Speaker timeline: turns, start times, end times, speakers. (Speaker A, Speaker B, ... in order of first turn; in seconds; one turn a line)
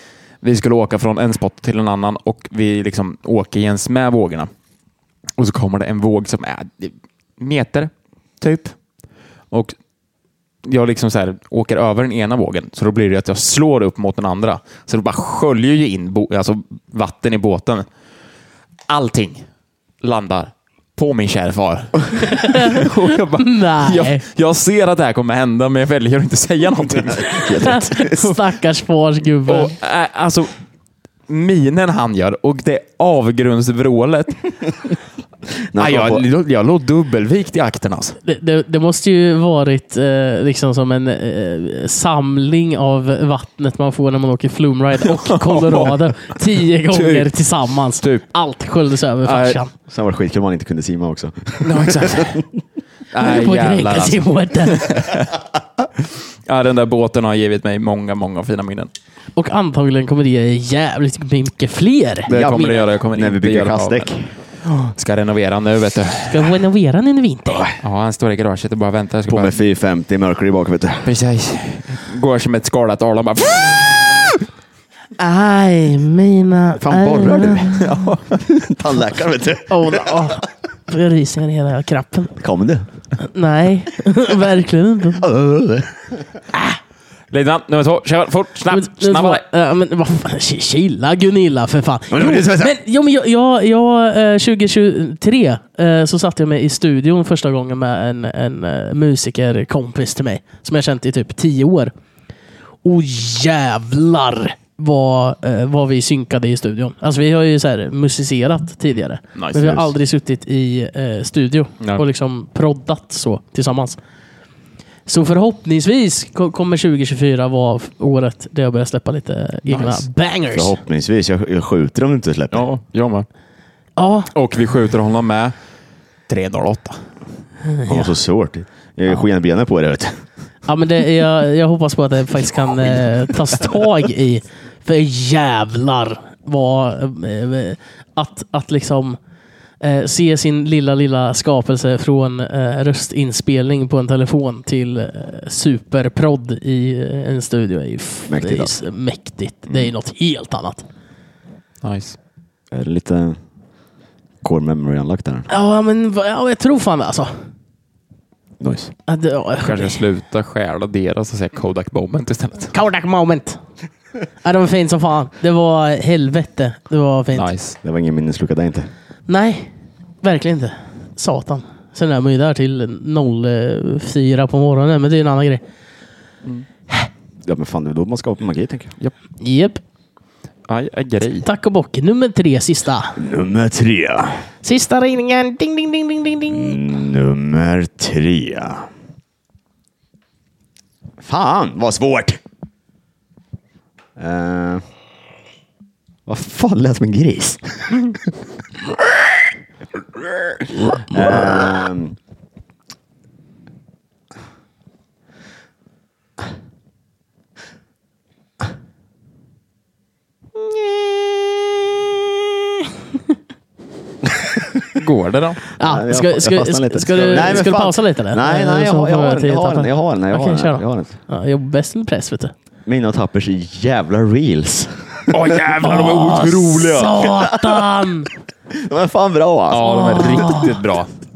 Speaker A: 0.4-4.5
Speaker A: 5.4-8.8
Speaker A: 10.7-17.9
Speaker A: 18.9-19.5
Speaker A: 20.0-27.8
Speaker B: 22.4-24.2
Speaker C: 27.1-28.3
Speaker B: 27.6-29.7
Speaker A: 29.5-30.5
Speaker A: 31.3-34.4
Speaker C: 35.7-36.2
Speaker A: 35.8-38.2
Speaker B: 38.2-49.7
Speaker A: 45.0-46.4
Speaker A: 46.9-47.3
Speaker A: 48.0-48.2
Speaker A: 49.2-49.6
Speaker C: 49.9-52.5
Speaker A: 51.6-52.4
Speaker A: 53.1-55.4
Speaker B: 53.2-55.0
Speaker A: 56.0-58.9
Speaker B: 59.4-62.9
Speaker A: 62.3-64.1
Speaker C: 62.3-64.3
Speaker A: 64.8-66.5
Speaker B: 66.3-67.7
Speaker C: 67.5-67.8
Speaker A: 67.8-69.6
Speaker C: 69.3-71.1
Speaker A: 71.0-74.3
Speaker B: 75.2-77.9
Speaker C: 76.8-80.4
Speaker A: 77.7-78.4
Speaker B: 79.7-82.4
Speaker C: 82.4-82.9
Speaker B: 83.2-85.3
Speaker C: 85.2-86.4
Speaker B: 86.5-86.8
Speaker A: 87.3-89.4
Speaker B: 88.7-101.9
Speaker C: 92.1-92.8
Speaker B: 102.8-114.0
Speaker A: 109.3-109.9
Speaker B: 115.1-120.8
Speaker A: 119.7-120.0
Speaker C: 120.5-122.7
Speaker A: 122.5-123.3
Speaker B: 124.0-124.3
Speaker A: 124.3-125.5
Speaker A: 126.3-127.0
Speaker B: 127.7-128.1
Speaker C: 127.9-130.2
Speaker B: 130.7-139.2
Speaker C: 132.5-133.8
Speaker B: 139.8-150.8
Speaker C: 148.3-148.7
Speaker A: 151.8-152.2
Speaker C: 152.7-153.4
Speaker C: 154.4-155.5
Speaker B: 155.5-157.3
Speaker C: 158.6-158.9
Speaker B: 159.1-160.0
Speaker A: 159.6-162.7
Speaker B: 162.7-163.6
Speaker B: 164.4-167.5
Speaker A: 167.3-167.8
Speaker C: 167.8-168.9
Speaker B: 169.3-175.6
Speaker C: 177.4-178.9
Speaker B: 179.4-179.8
Speaker A: 180.7-181.5
Speaker B: 181.4-183.2
Speaker C: 183.2-184.5
Speaker B: 184.6-186.8
Speaker C: 186.5-188.9
Speaker C: 191.2-192.4
Speaker C: 194.2-194.8
Speaker C: 196.3-198.4
Speaker C: 200.1-202.2
Speaker B: 210.7-211.6
Speaker C: 214.3-214.8
Speaker A: 214.9-215.6
Speaker B: 215.8-222.5
Speaker C: 215.8-221.1
Speaker C: 222.9-225.6
Speaker A: 225.3-227.3
Speaker B: 225.8-228.3
Speaker C: 227.2-228.0
Speaker C: 228.7-230.6
Speaker A: 229.7-231.1
Speaker B: 229.8-230.8